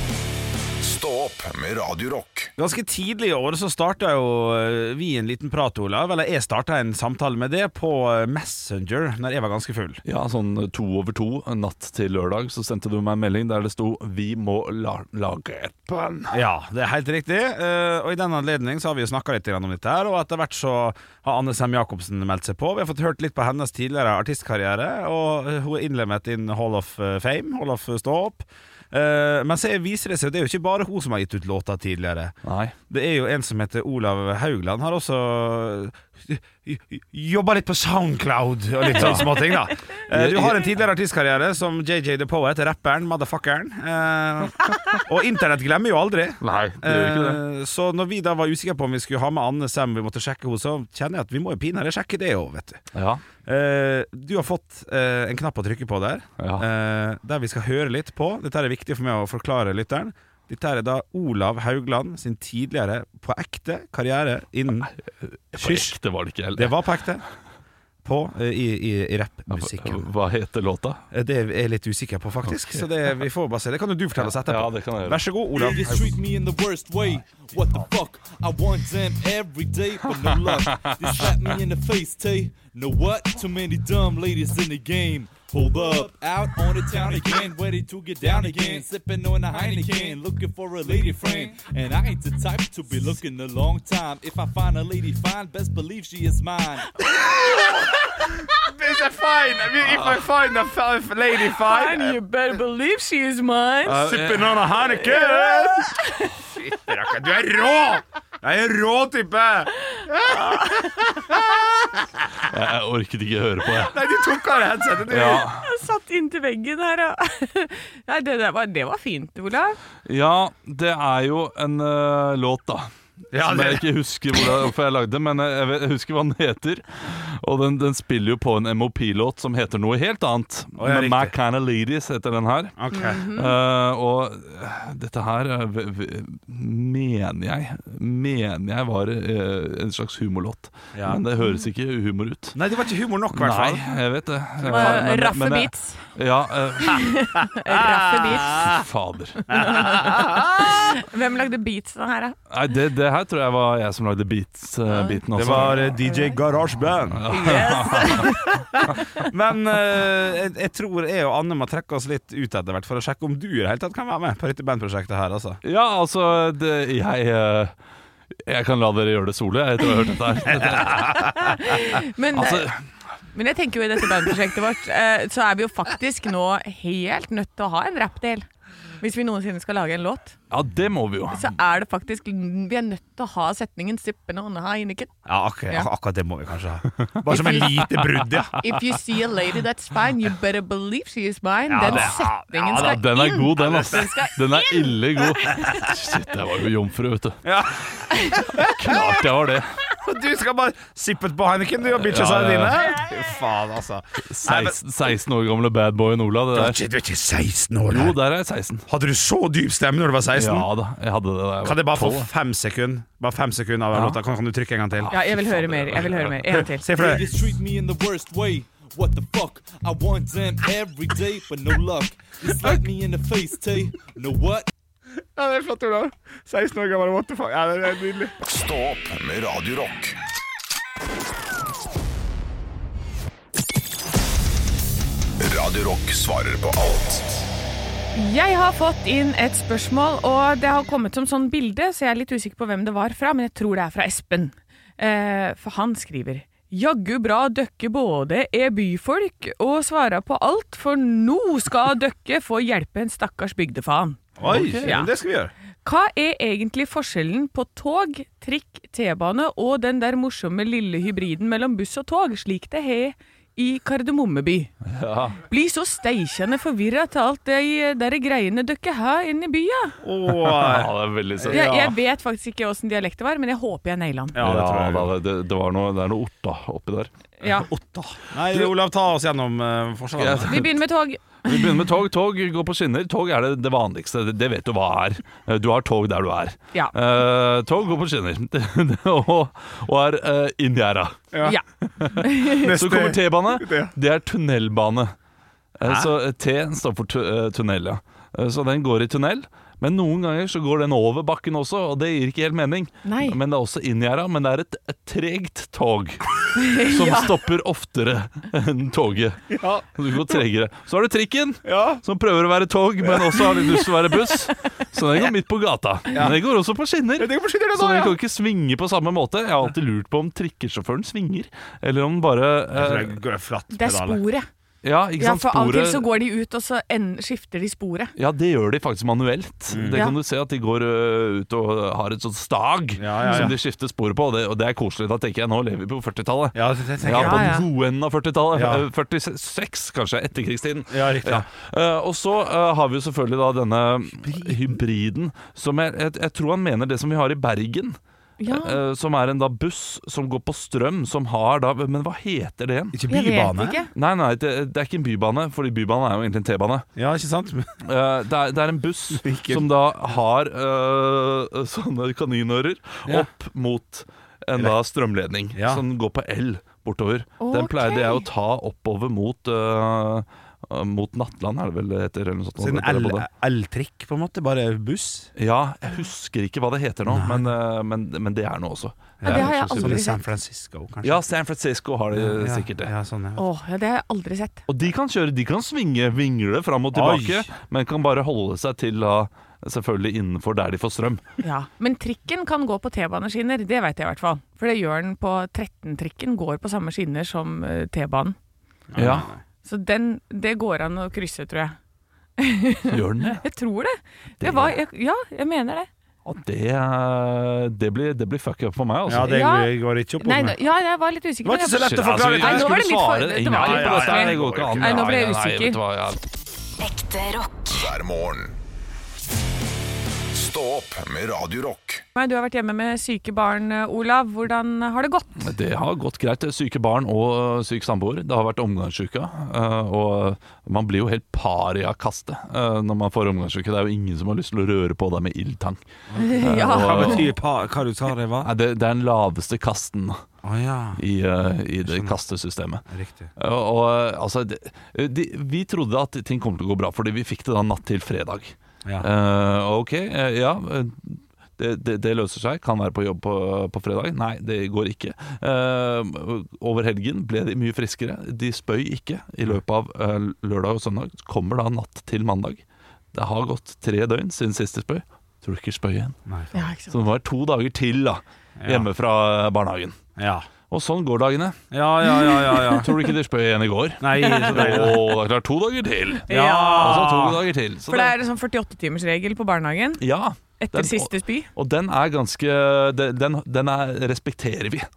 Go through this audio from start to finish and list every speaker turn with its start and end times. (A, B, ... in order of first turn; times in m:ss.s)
0:00.8-0:02.5 A
0:02.6-0:10.0 B
0:10.0-0:16.4 C
0:16.3-0:32.4 B
0:32.4-0:32.7 C
0:32.9-0:52.8 B
0:38.9-0:39.4 C
0:40.1-0:40.7 C
0:46.4-0:47.4 C
0:52.9-0:53.2 C
0:53.4-1:04.9 B
0:56.4-0:56.7 C
1:05.3-1:06.8 C
1:05.6-1:06.0 B
1:06.6-1:07.2 B
1:08.0-1:10.0 B
1:09.5-1:11.0 C
1:11.1-1:16.2 B
1:14.2-1:15.2 C
1:15.5-1:37.0 D
1:38.6-1:42.2 B
1:39.8-1:40.2 C
1:41.5-1:44.1 E
1:43.8-1:44.8 C
1:43.9-1:52.3 B
1:44.9-1:46.5 E
1:50.2-1:51.1 E
1:52.5-1:54.0 C
1:53.8-1:55.5 B
1:55.1-1:55.7 C
1:55.5-1:59.8 E
2:00.1-2:22.6 C
2:03.3-2:03.8 B
2:10.8-2:11.3 B
2:12.8-2:13.3 B
2:12.9-2:13.6 E
2:20.9-2:21.2 B
2:22.5-2:24.0 B
2:23.3-2:27.2 C
2:24.6-2:26.1 E
2:24.6-2:25.1 B
2:26.8-2:28.7 E
2:27.7-2:28.8 B
2:28.5-2:29.8 C
2:29.5-2:31.0 B
2:29.5-2:32.4 E
2:32.5-2:36.0 C
2:34.9-2:35.2 E
2:35.3-2:45.6 B
2:37.1-2:38.4 C
2:37.3-2:39.1 E
2:45.6-2:47.7 C
2:48.4-2:51.8 C
2:50.9-2:52.7 E
2:52.3-2:52.8 C
2:53.3-2:58.5 E
2:59.0-3:00.4 E
3:00.5-3:01.5 C
3:01.3-3:05.1 E
3:05.3-3:08.6 B
3:07.3-3:07.7 E
3:08.6-3:15.9 E
3:11.7-3:14.2 B
3:11.8-3:12.2 C
3:12.7-3:17.4 C
3:17.4-3:19.3 B
3:18.1-3:18.4 E
3:18.5-3:19.8 C
3:19.9-3:24.8 B
3:21.9-3:22.9 C
3:24.3-3:26.8 C
3:26.5-3:28.2 B
3:27.9-3:28.8 C
3:28.9-3:30.7 B
3:30.4-3:32.3 C
3:31.6-3:35.2 B
3:33.9-3:34.2 C
3:35.0-3:36.7 C
3:35.1-3:36.9 E
3:36.8-3:37.3 B
3:36.9-3:44.7 D
3:45.4-3:48.3 B
3:48.4-3:50.2 A
3:55.4-3:57.4 A
3:58.1-4:14.3 E
4:14.4-4:15.5 B
4:14.4-4:15.1 C
4:14.8-4:15.1 E
4:15.8-4:24.7 E
4:24.8-4:25.4 C
4:25.4-4:30.0 E
4:30.0-4:31.9 B
4:30.3-4:32.0 C
4:31.5-4:34.4 E
4:34.4-4:35.1 B
4:34.4-4:37.1 C
4:37.4-4:37.7 E
4:37.8-4:40.6 B
4:40.2-4:55.1 C
4:40.5-4:41.8 E
4:51.3-4:51.6 B
4:52.2-4:52.7 E
4:52.5-4:53.9 B
4:55.8-5:23.2 C
4:55.8-4:56.1 B
5:03.0-5:03.4 E
5:06.6-5:07.3 E
5:09.5-5:09.8 B
5:11.6-5:12.0 B
5:13.0-5:13.4 B
5:16.1-5:16.4 B
5:17.2-5:18.2 B
5:22.7-5:24.2 B
5:23.7-5:24.5 E
5:24.8-5:26.1 C
5:25.2-5:28.1 E
5:28.2-5:48.0 C
5:29.7-5:30.1 B
5:33.0-5:33.6 B
5:33.2-5:33.5 E
5:36.5-5:37.5 B
5:37.1-5:37.7 E
5:38.5-5:38.8 B
5:40.9-5:41.5 B
5:44.2-5:44.6 B
5:48.4-5:48.8 E
5:48.5-5:53.0 C
5:52.9-5:53.8 B
5:53.1-5:53.9 E
5:54.0-5:56.9 C
5:57.0-5:57.7 B
5:57.8-6:13.3 C
5:59.1-5:59.7 B
6:05.6-6:05.8 B
6:07.4-6:08.3 E
6:12.6-6:15.3 B
6:15.4-6:20.1 C
6:17.1-6:17.5 B
6:19.2-6:21.2 B
6:19.2-6:20.2 E
6:21.0-6:22.9 C
6:22.1-6:23.4 B
6:23.4-6:24.6 E
6:24.7-6:31.2 C
6:26.9-6:27.5 B
6:31.4-6:38.4 E
6:38.9-6:39.4 B
6:39.0-6:39.3 C
6:39.6-6:41.8 E
6:42.4-6:45.9 E
6:42.9-6:43.4 C
6:44.4-6:44.8 C
6:46.2-6:49.4 C
6:49.1-6:50.6 B
6:49.2-6:55.8 E
6:51.4-6:52.8 B
6:51.8-6:56.2 C
6:53.5-6:55.1 B
6:56.8-6:58.6 A
7:00.3-7:02.0 A
7:02.2-7:05.4 E
7:05.4-7:15.8 C
7:16.1-7:18.5 B
7:16.2-7:17.3 E
7:16.4-7:17.3 C
7:18.4-7:20.2 C
7:20.4-7:21.0 B
7:21.0-7:22.8 C
7:21.8-7:22.2 B
7:22.9-7:23.3 B
7:23.4-7:42.6 C
7:43.1-7:46.2 C
7:46.3-7:46.7 B
7:46.5-7:47.0 E
7:46.9-7:50.0 C
7:48.6-7:48.9 B
7:50.2-7:50.5 B
7:50.7-7:51.6 C
7:51.7-7:52.9 B
7:52.1-7:52.9 E
7:52.7-7:58.2 C
7:54.0-7:55.0 B
7:54.2-7:55.0 E
7:56.3-7:57.2 E
7:56.3-7:57.4 B
7:57.9-8:00.0 E
8:00.0-8:04.9 C
8:00.6-8:01.5 E